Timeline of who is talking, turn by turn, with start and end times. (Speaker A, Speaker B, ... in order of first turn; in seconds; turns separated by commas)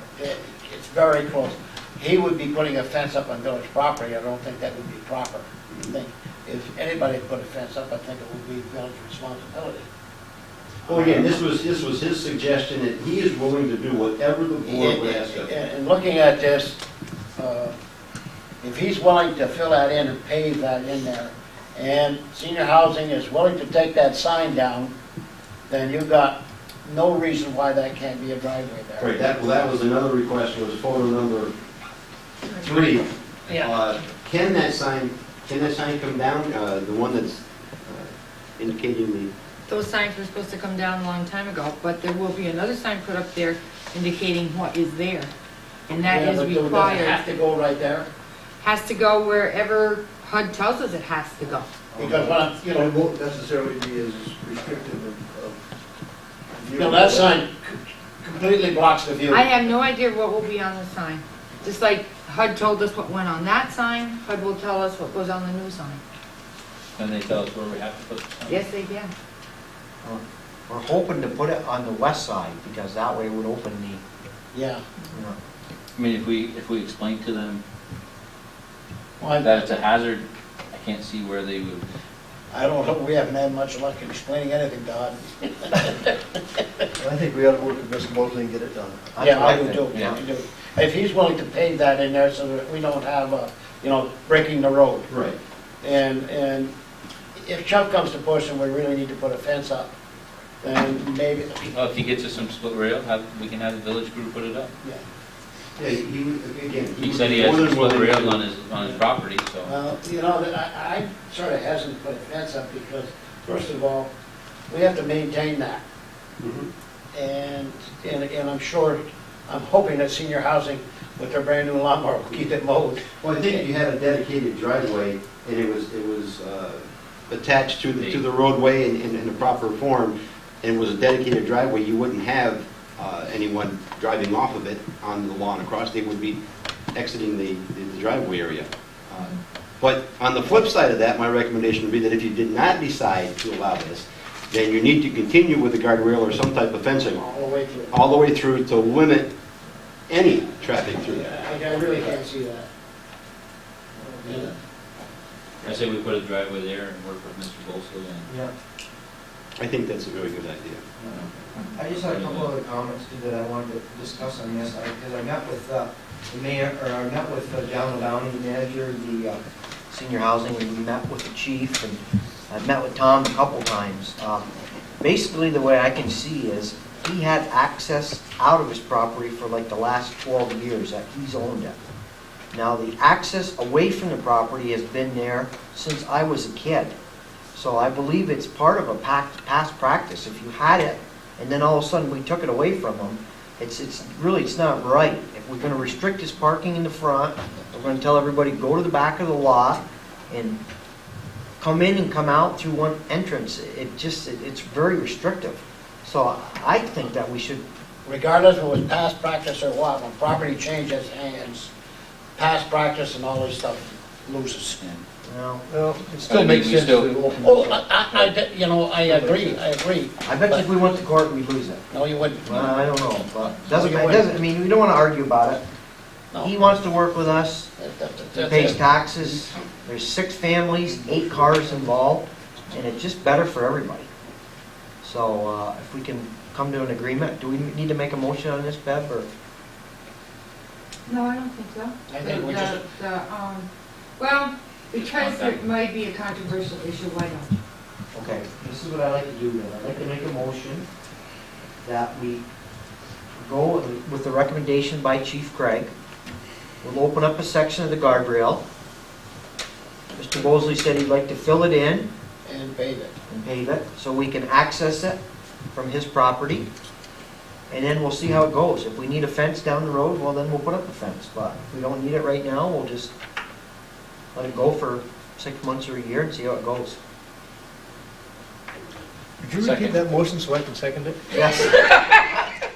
Speaker A: 0.2-9.9, Speaker A: 10.9-11.4, Speaker B: 10.9-15.5, Speaker A: 14.7-16.8, Speaker A: 17.4-17.8, Speaker A: 18.6-24.9, Speaker A: 25.7-29.1, Speaker B: 29.0-31.6, Speaker B: 32.6-39.3, Speaker C: 39.7-45.3, Speaker C: 45.9-47.2, Speaker A: 46.0-48.1, Speaker C: 48.6-51.7, Speaker D: 51.9-55.6, Speaker A: 52.0-52.9, Speaker D: 56.6-57.4, Speaker A: 56.8-59.5, Speaker C: 59.3-66.0, Speaker E: 67.0-68.6, Speaker C: 68.5-69.1, Speaker F: 70.0-74.0, Speaker A: 74.5-74.8, Speaker F: 75.1-75.4, Speaker E: 76.0-77.6, Speaker A: 79.2-79.7, Speaker E: 79.4-81.9, Speaker A: 82.5-86.2, Speaker D: 87.0-89.2, Speaker F: 89.2-90.2, Speaker A: 89.2-95.1, Speaker B: 95.1-95.4, Speaker A: 95.8-96.7, Speaker A: 97.4-99.9, Speaker A: 100.6-101.8, Speaker E: 101.7-104.7, Speaker B: 105.8-108.4, Speaker E: 107.0-109.7, Speaker A: 109.7-114.1, Speaker A: 114.7-115.8, Speaker B: 116.4-116.7, Speaker A: 117.1-123.1, Speaker B: 123.2-136.4, Speaker E: 128.0-128.2, Speaker B: 136.9-147.2, Speaker A: 147.1-148.0, Speaker B: 147.9-149.3, Speaker B: 150.1-152.1, Speaker A: 151.1-152.7, Speaker A: 154.2-154.5, Speaker E: 155.6-158.3, Speaker F: 158.3-158.5, Speaker B: 159.6-160.8, Speaker E: 161.0-162.5, Speaker F: 161.0-169.4, Speaker F: 169.9-174.4, Speaker F: 175.0-181.8, Speaker F: 182.5-186.9, Speaker F: 187.5-200.6, Speaker F: 201.6-207.7, Speaker A: 208.1-211.7, Speaker A: 212.4-215.0, Speaker F: 215.2-215.6, Speaker D: 215.7-218.3, Speaker E: 216.3-217.4, Speaker A: 217.4-220.7, Speaker D: 219.0-219.6, Speaker F: 220.2-221.8, Speaker A: 221.9-222.8, Speaker F: 222.4-225.6, Speaker A: 223.7-224.3, Speaker F: 226.4-227.7, Speaker A: 227.8-228.8, Speaker F: 228.3-234.1, Speaker F: 235.0-239.3, Speaker C: 241.1-247.6, Speaker A: 242.1-242.8, Speaker E: 244.9-245.6, Speaker F: 248.1-250.9, Speaker F: 251.8-252.4, Speaker F: 253.4-255.9, Speaker F: 256.8-258.6, Speaker F: 260.1-262.1, Speaker A: 262.5-263.2, Speaker F: 263.3-265.2, Speaker F: 265.7-266.7, Speaker F: 267.7-273.1, Speaker F: 274.3-277.0, Speaker D: 279.4-281.3, Speaker E: 279.6-280.0, Speaker F: 281.3-281.9